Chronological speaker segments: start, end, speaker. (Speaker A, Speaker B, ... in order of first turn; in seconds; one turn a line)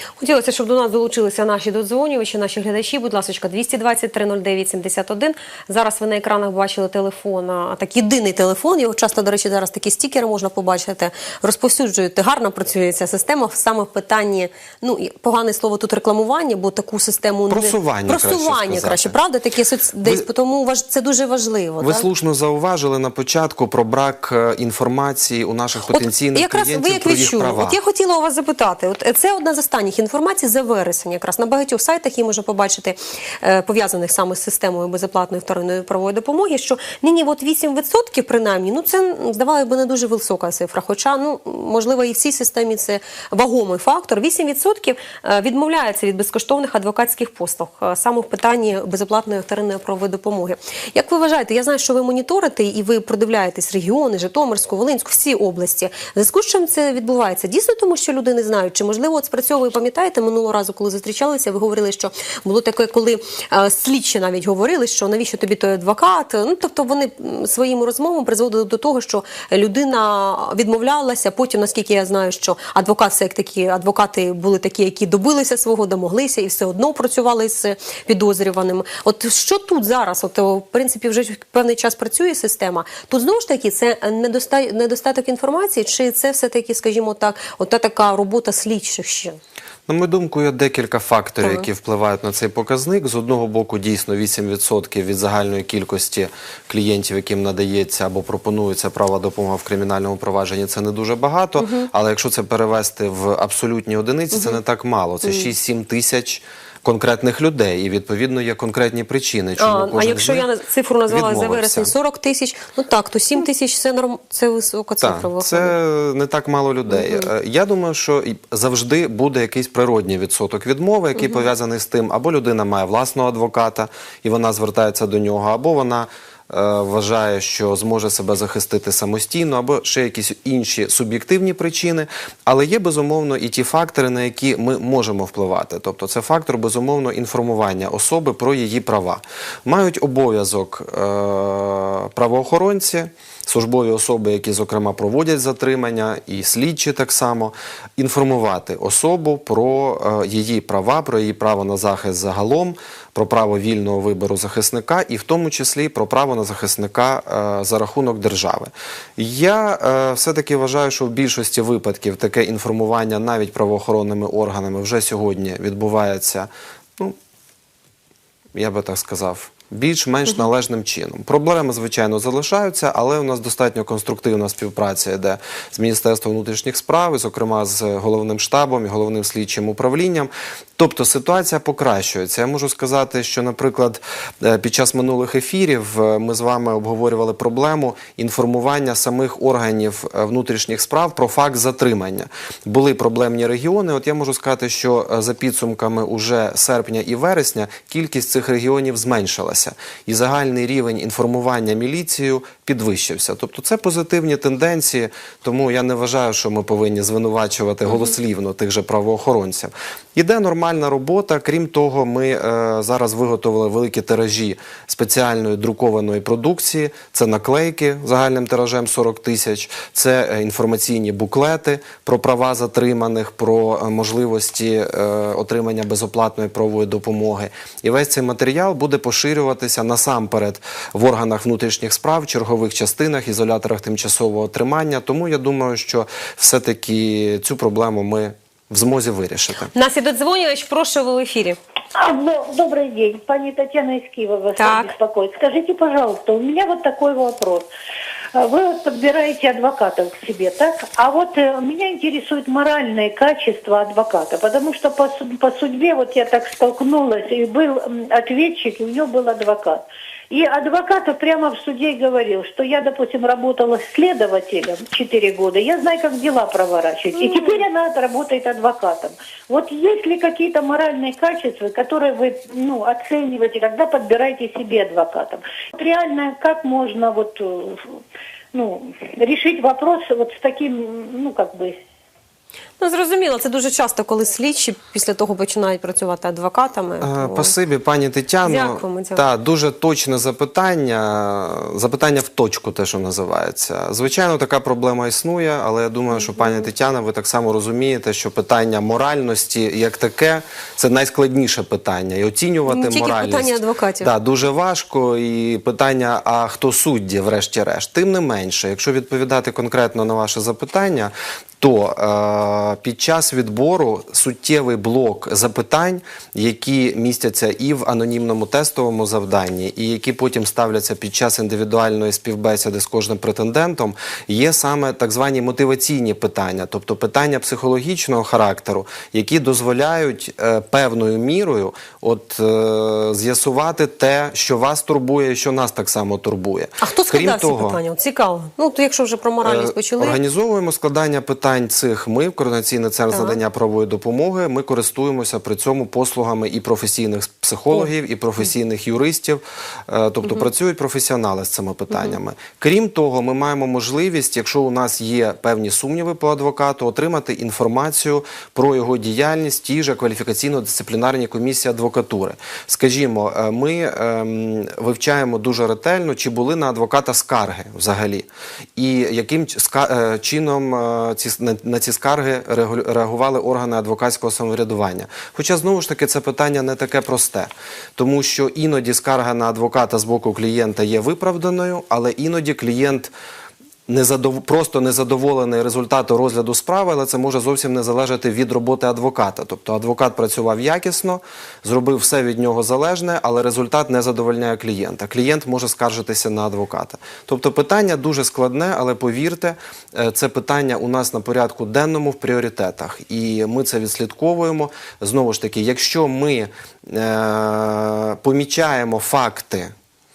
Speaker A: 0.2-22.1
Speaker B: 17.5-19.2
Speaker B: 21.8-27.8
Speaker A: 25.9-89.4
Speaker B: 89.9-110.5
Speaker A: 91.4-91.7
Speaker A: 101.6-101.9
Speaker A: 104.3-104.6
Speaker A: 105.2-105.5
Speaker A: 109.6-115.8
Speaker B: 111.1-111.9
Speaker B: 115.0-167.2
Speaker A: 116.9-117.3
Speaker A: 121.2-121.5
Speaker B: 168.6-239.7
Speaker A: 239.7-241.6
Speaker C: 241.9-247.7
Speaker A: 244.6-244.9
Speaker C: 248.3-277.9
Speaker A: 267.1-267.6
Speaker C: 278.5-281.8
Speaker A: 282.8-287.5
Speaker B: 287.0-337.8
Speaker A: 288.4-289.2
Speaker A: 296.1-296.7
Speaker A: 302.7-304.1
Speaker A: 336.8-340.2
Speaker B: 339.4-383.1
Speaker A: 343.1-343.4
Speaker A: 351.9-352.2
Speaker B: 383.9-409.7